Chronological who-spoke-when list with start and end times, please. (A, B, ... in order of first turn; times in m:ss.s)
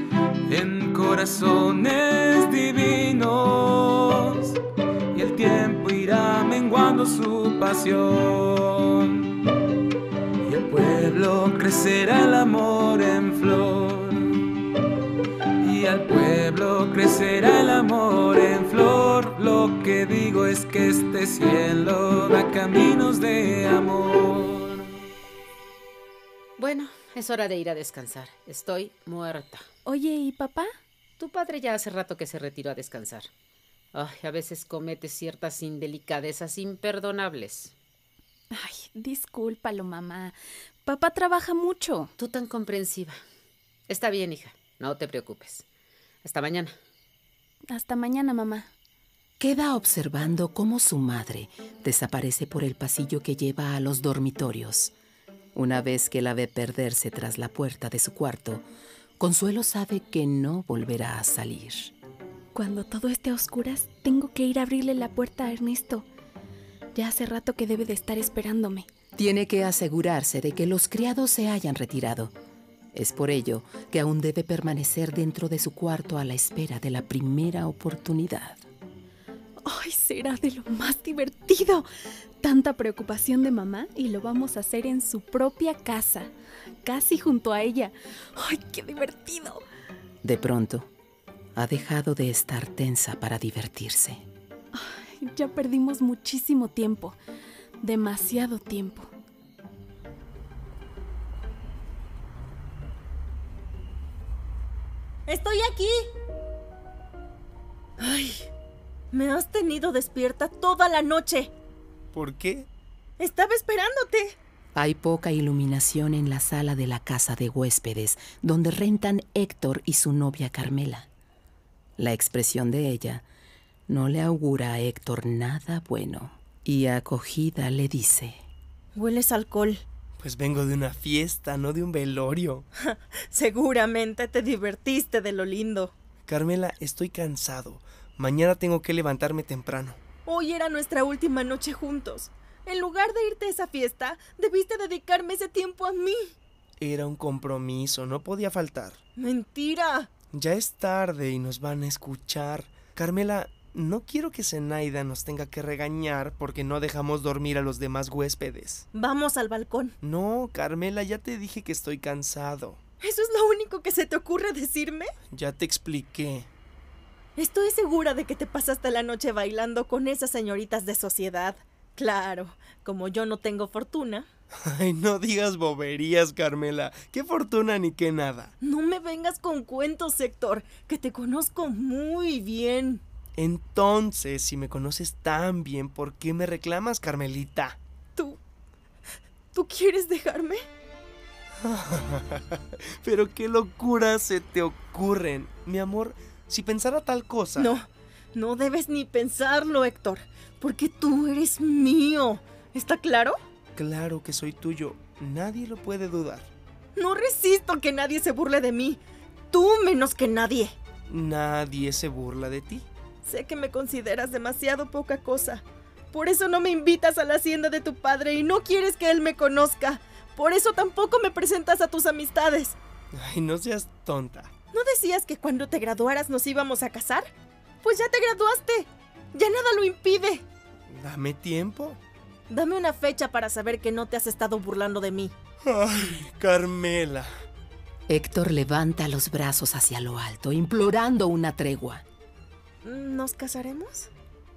0:00.5-0:04.6 A
0:05.1-0:09.5 A
0:10.4-0:14.6 A
0:15.6-0:24.9 A
0:26.6-0:29.6 B
0:29.8-0:30.7 C
0:31.2-0:33.3 B
0:33.9-0:37.7 B
0:38.5-0:42.1 C
0:42.2-0:43.2 B
0:43.9-0:45.6 B
0:46.2-0:46.8 B
0:47.7-0:48.7 C
0:49.4-0:54.9 D
0:55.5-0:58.6 D
0:59.2-1:01.9 D
1:02.5-1:06.0 C
1:06.9-1:08.8 C
1:09.2-1:12.3 D
1:12.9-1:18.6 D
1:19.6-1:21.8 C
1:22.4-1:26.3 C
1:26.8-1:29.6 C
1:30.2-1:30.9 D
1:31.6-1:34.2 D
1:34.7-1:37.2 C
1:37.8-1:39.1 C
1:45.3-1:46.0 E
1:48.0-1:48.5 E
1:49.1-1:51.5 E
1:52.1-1:52.7 F
1:53.2-1:54.4 E
1:54.7-2:01.1 D
2:02.0-2:03.2 D
2:03.9-2:08.4 D
2:08.9-2:09.8 E
2:10.2-2:12.6 F
2:12.8-2:15.9 E
2:16.3-2:20.0 F
2:20.2-2:26.3 E
2:26.8-2:29.0 F
2:29.2-2:30.1 E
2:30.3-2:38.8 F
2:38.9-2:39.9 E
2:40.0-2:42.8 F
2:43.0-2:45.1 E
2:45.3-2:46.5 F
2:47.4-2:54.3 E
2:54.6-2:58.5 F
2:58.6-3:03.0 E
3:03.4-3:07.8 F
3:09.5-3:10.6 E
3:11.6-3:17.7 F
3:17.6-3:23.4 E
3:23.8-3:26.5 F
3:27.0-3:30.8 E
3:31.1-3:32.8 F
3:33.2-3:42.8 E
3:43.1-3:44.5 F
3:44.7-3:47.3 E
3:47.8-3:50.4 E
3:50.9-3:52.0 F
3:52.5-3:55.3 E
3:55.6-3:57.3 F
3:58.1-4:02.0 D
4:02.8-4:04.1 E